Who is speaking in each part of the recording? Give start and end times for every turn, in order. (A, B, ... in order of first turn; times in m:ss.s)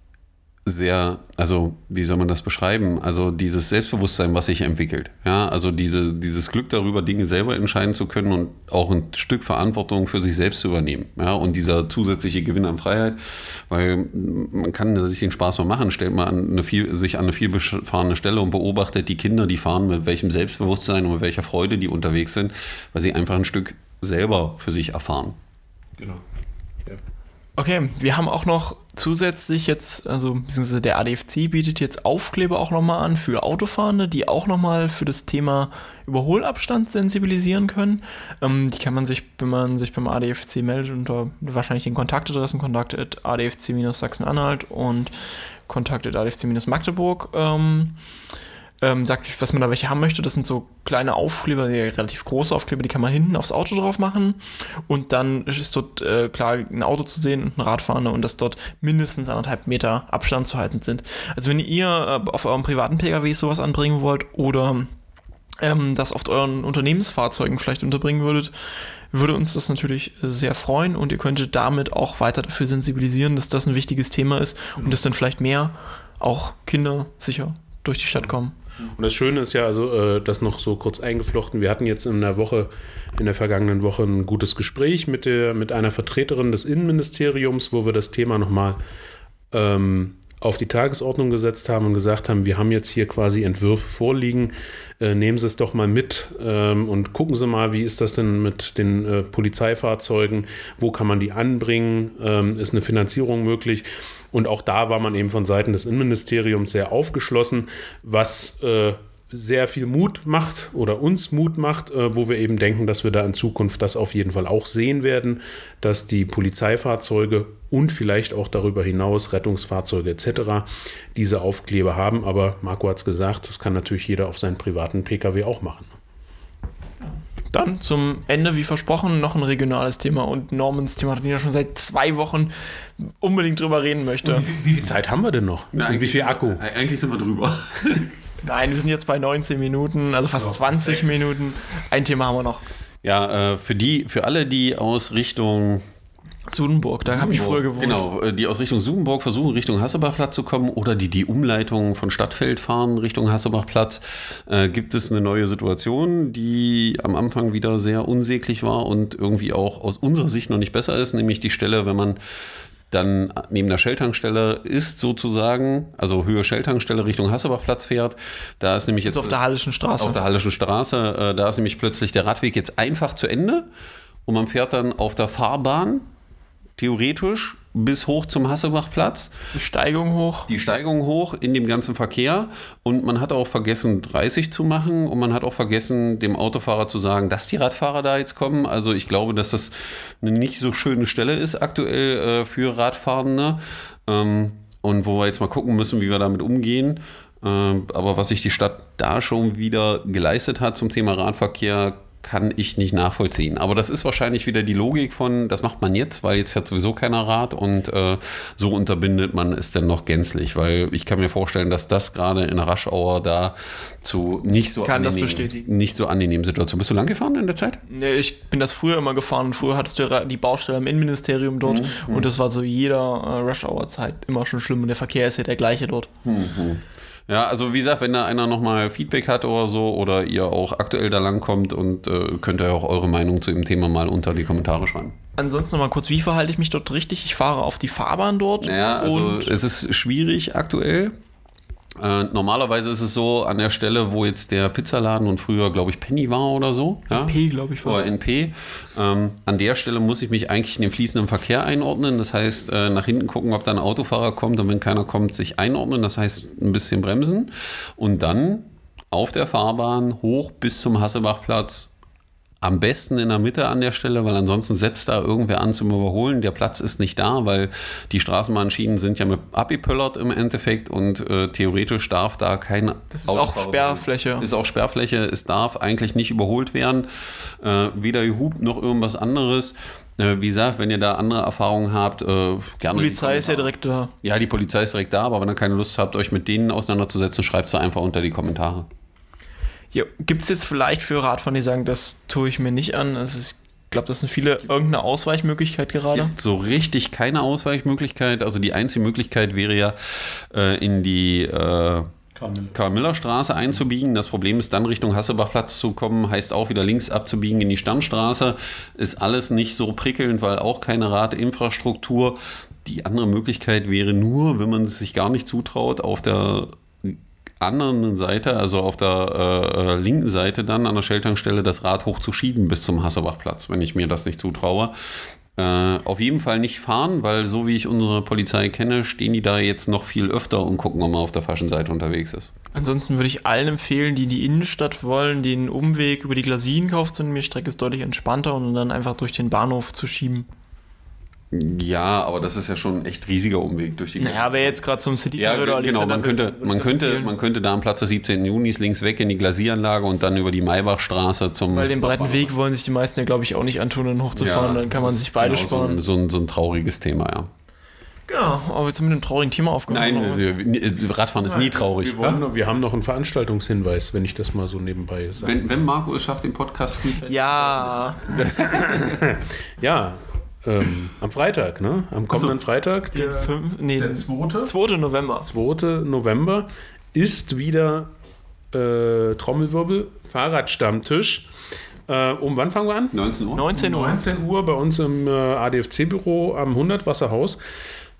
0:00.6-0:25.4 A
0:26.0-0:26.2 B
0:27.6-0:45.1 C
0:45.7-0:48.0 C
0:48.8-1:04.9 C
1:05.6-1:08.5 C
1:09.1-1:18.6 C
1:18.8-1:28.8 B
1:29.5-2:05.9 B
2:07.5-2:14.5 C
2:14.2-2:16.6 B
2:15.7-2:18.1 A
2:18.4-2:22.6 C
2:23.0-2:25.8 A
2:26.5-2:28.0 C
2:27.0-2:42.2 A
2:42.9-2:49.4 A
2:49.0-2:50.2 C
2:50.0-2:53.6 A
2:54.2-2:56.1 A
2:56.8-2:59.3 A
2:59.5-3:00.5 C
3:00.5-3:37.8 A
3:34.8-3:35.7 C
3:37.9-3:46.1 C
3:41.6-3:42.3 A
3:46.2-3:55.1 A
3:55.4-3:59.5 C
3:58.6-4:01.1 A
4:02.0-4:21.9 A
4:07.1-4:08.0 C
4:22.6-4:37.0 A
4:33.1-4:34.5 C
4:37.6-4:48.9 A
4:42.9-4:44.1 C
4:49.9-4:56.3 C
4:56.1-5:02.1 A
5:02.3-5:02.8 B
5:02.7-5:32.5 A
5:32.7-5:40.5 C
5:41.5-5:44.8 A
5:44.2-5:47.3 C
5:45.4-5:52.5 A
5:51.7-5:56.0 C
5:54.3-5:57.5 A
5:58.3-6:00.5 C
5:59.9-6:02.4 A
6:01.4-6:01.7 C
6:01.9-6:05.7 B
6:05.4-6:09.2 A
6:07.2-6:08.2 C
6:08.4-6:14.7 B
6:13.1-6:15.5 C
6:15.5-6:18.1 B
6:18.7-6:21.5 B
6:22.1-6:23.2 B
6:23.1-6:23.7 A
6:23.5-6:24.2 C
6:23.7-6:27.6 B